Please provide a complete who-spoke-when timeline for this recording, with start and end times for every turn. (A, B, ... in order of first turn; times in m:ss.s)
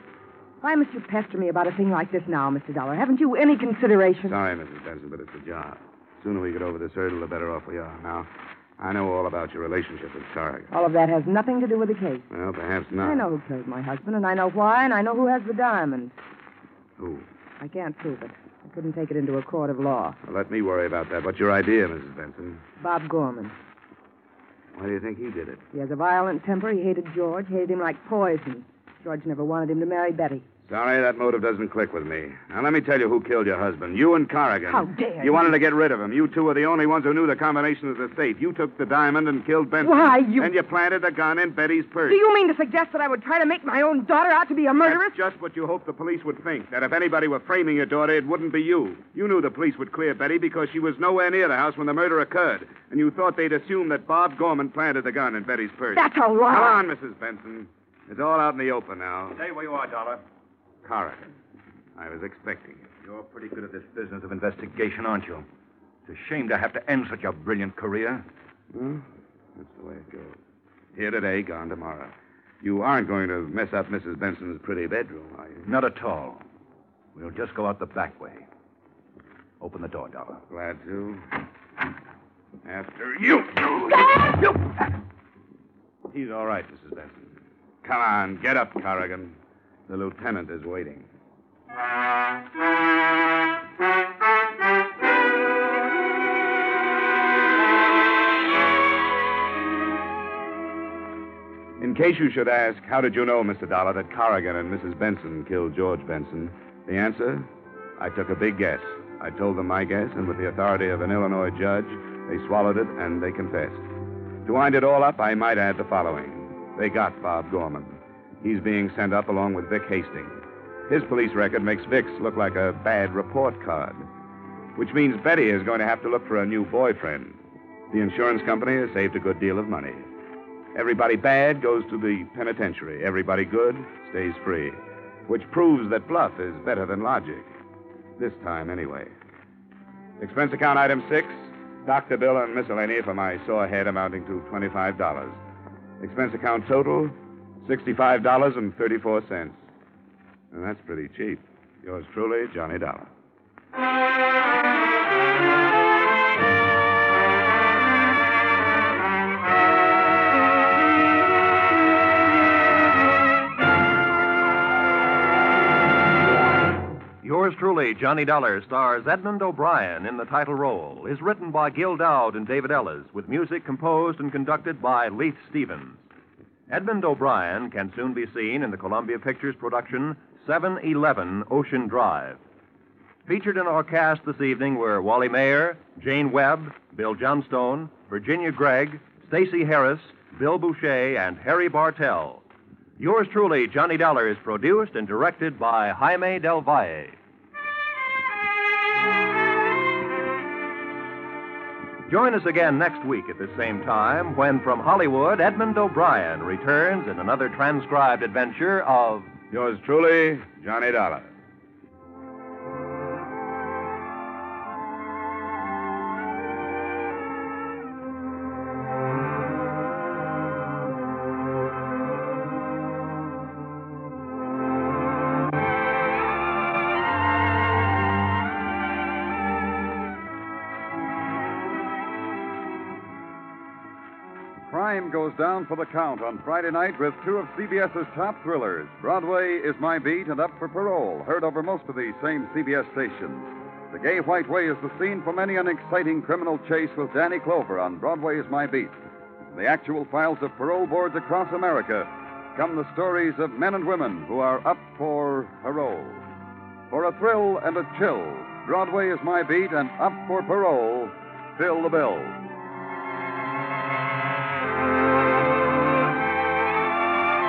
0:00.6-0:04.4 A
0:04.2-0:08.3 B
0:08.8-0:10.7 B
0:10.7-0:12.3 A
0:12.3-0:13.2 B
0:13.0-0:16.2 A
0:17.0-0:17.2 B
0:17.6-0:20.2 A
0:20.2-0:22.6 B
0:22.8-0:23.5 A
0:24.7-0:25.6 B
0:25.7-0:30.4 A
0:30.7-0:42.2 B
0:34.7-0:35.6 A
0:39.8-0:40.5 A
0:42.0-0:45.2 A
0:44.8-0:59.4 B
0:55.9-0:56.8 A
0:59.3-1:00.2 C
1:00.8-1:01.3 B
1:02.0-1:02.8 B
1:03.0-1:05.4 C
1:06.0-1:08.2 C
1:08.7-1:10.4 B
1:10.9-1:15.7 B
1:15.6-1:16.4 C
1:17.1-1:18.4 C
1:19.6-1:20.4 C
1:20.5-1:21.2 B
1:22.6-1:24.6 B
1:26.1-1:27.3 B
1:27.8-1:31.1 B
1:41.8-1:53.8 B
1:54.4-2:04.0 B
2:04.8-2:07.4 B
2:07.9-2:10.0 B
2:10.7-2:17.5 B
2:18.2-2:19.1 B
2:20.2-2:25.4 B
2:26.0-2:29.6 B
2:30.5-2:33.1 B
2:47.2-2:56.0 D
2:56.7-3:02.4 D
3:03.2-3:12.4 D
3:13.0-3:17.2 D
3:22.1-3:29.3 D
3:29.5-3:31.3 B
3:54.6-4:08.9 E
4:09.5-4:16.2 E
4:16.9-4:22.4 E